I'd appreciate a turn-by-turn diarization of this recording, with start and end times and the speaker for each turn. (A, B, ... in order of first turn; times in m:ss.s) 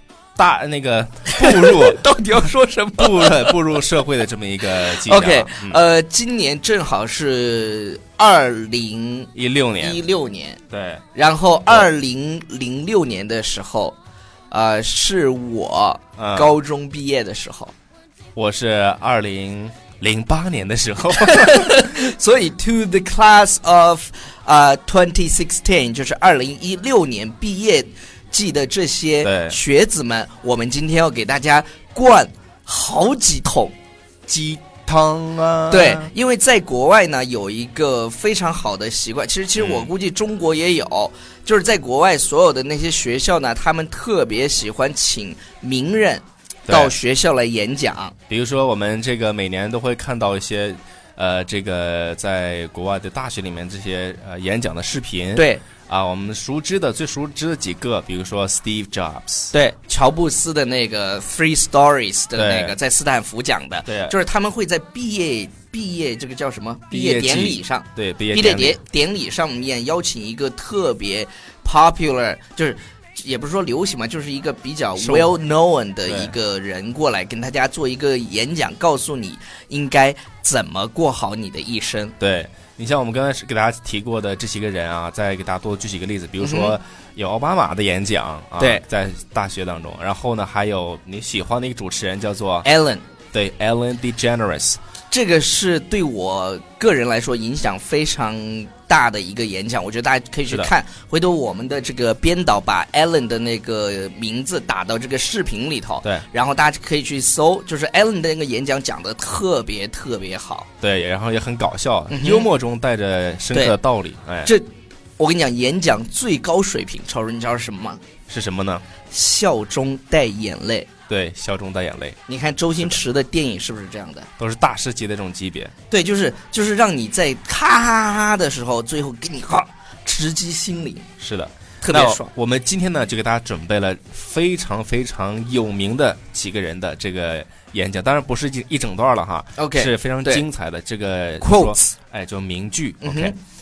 0:00.4-0:02.0 A
0:01.3-0:03.8 B
0:03.0-0:05.8 A
0:04.7-0:10.6 B
0:09.3-0:10.0 A
0:10.7-0:11.0 A
0:11.1-0:14.0 B
0:14.5-0:17.7 B
0:16.2-0:16.5 A
0:18.3-0:22.1 A
0:21.1-0:33.7 B
0:29.2-0:29.6 A
0:34.3-0:36.1 A
0:35.7-0:48.1 B
0:39.6-0:39.9 A
0:46.7-0:46.9 A
0:48.3-0:59.5 A
0:55.4-0:55.6 B
0:59.5-1:22.1 B
1:02.4-1:02.8 A
1:03.9-1:04.1 A
1:06.9-1:08.8 A
1:15.0-1:15.4 A
1:16.0-1:16.3 A
1:22.2-1:32.7 A
1:26.4-1:26.8 B
1:32.6-1:33.0 B
1:33.3-1:34.8 A
1:35.1-1:50.7 B
1:50.8-1:54.5 A
1:52.1-1:52.5 B
1:54.4-1:58.0 B
1:58.3-1:58.8 A
1:59.1-2:00.9 B
2:01.1-2:02.2 A
2:02.3-2:04.3 B
2:04.4-2:05.7 A
2:05.9-2:11.1 B
2:11.2-2:23.3 A
2:11.8-2:12.3 B
2:19.6-2:20.4 B
2:21.4-2:21.9 B
2:23.0-2:23.4 B